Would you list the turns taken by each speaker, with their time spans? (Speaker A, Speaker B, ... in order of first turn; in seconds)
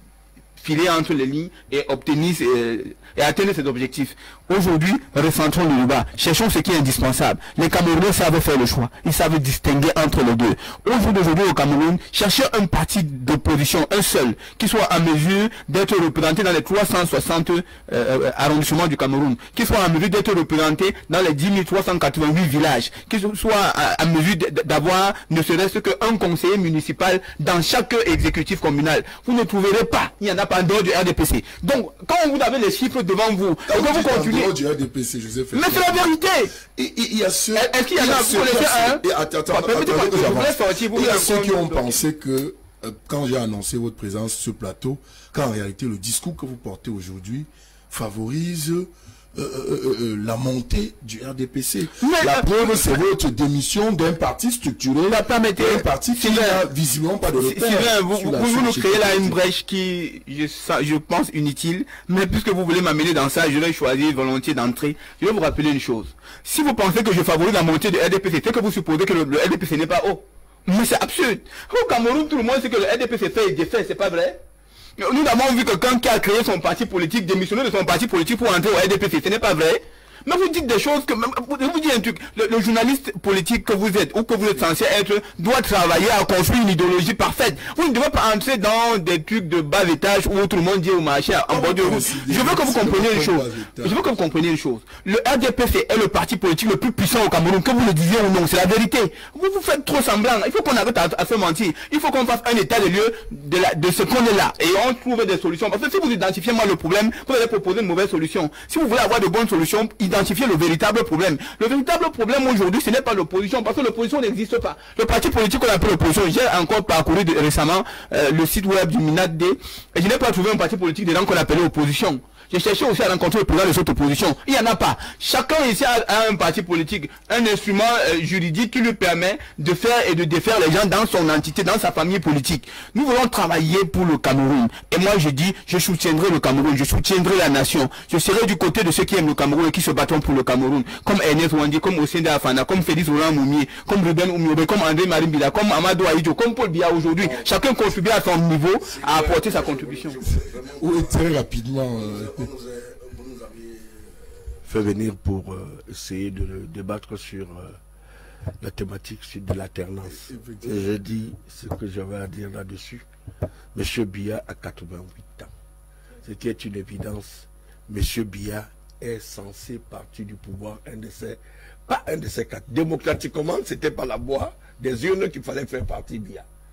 Speaker A: 0.6-34.5, 35.5-36.5, 37.6-41.9, 52.0-53.0, 55.1-56.7, 57.4-74.4, 75.0-150.2
Speaker B: 33.7-36.1, 36.7-59.4, 91.5-94.0, 150.8-152.5, 160.1-160.8
Speaker C: 147.2-147.5, 148.8-151.2, 151.9-157.8, 158.6-163.0, 163.7-165.5, 166.2-176.4